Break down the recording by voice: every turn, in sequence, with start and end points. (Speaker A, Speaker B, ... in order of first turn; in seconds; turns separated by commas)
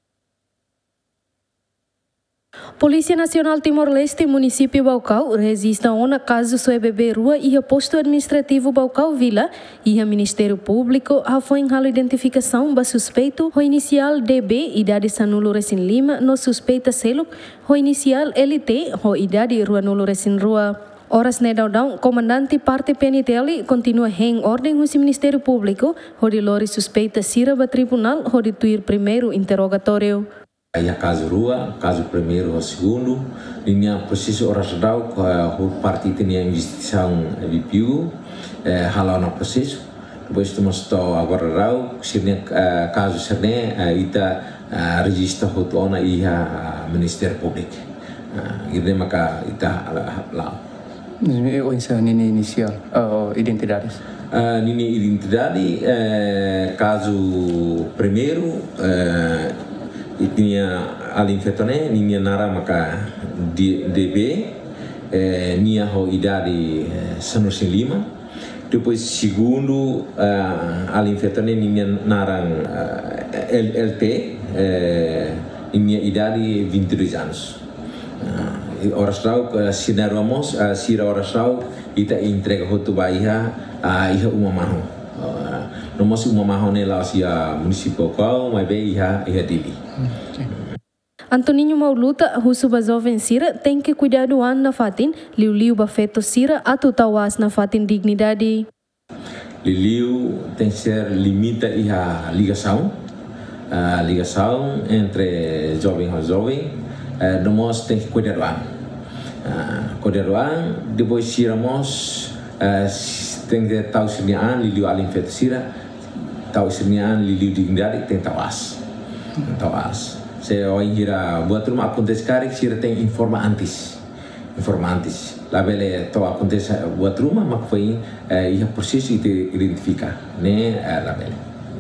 Speaker A: 2.8-30.2, Speaker B: 30.8-50.6, Speaker C: 51.2-54.0, Speaker B: 54.3-59.6, Speaker B: 60.2-64.6, Speaker B: 65.1-68.1, Speaker B: 68.7-77.6, Speaker B: 78.2-89.8, Speaker A: 91.3-98.7, Speaker B: 99.6-103.0, Speaker B: 103.7-108.7, Speaker B: 109.4-115.7, Speaker B: 116.5-118.8, Speaker B: 119.4-124.0, Speaker B: 124.6-131.4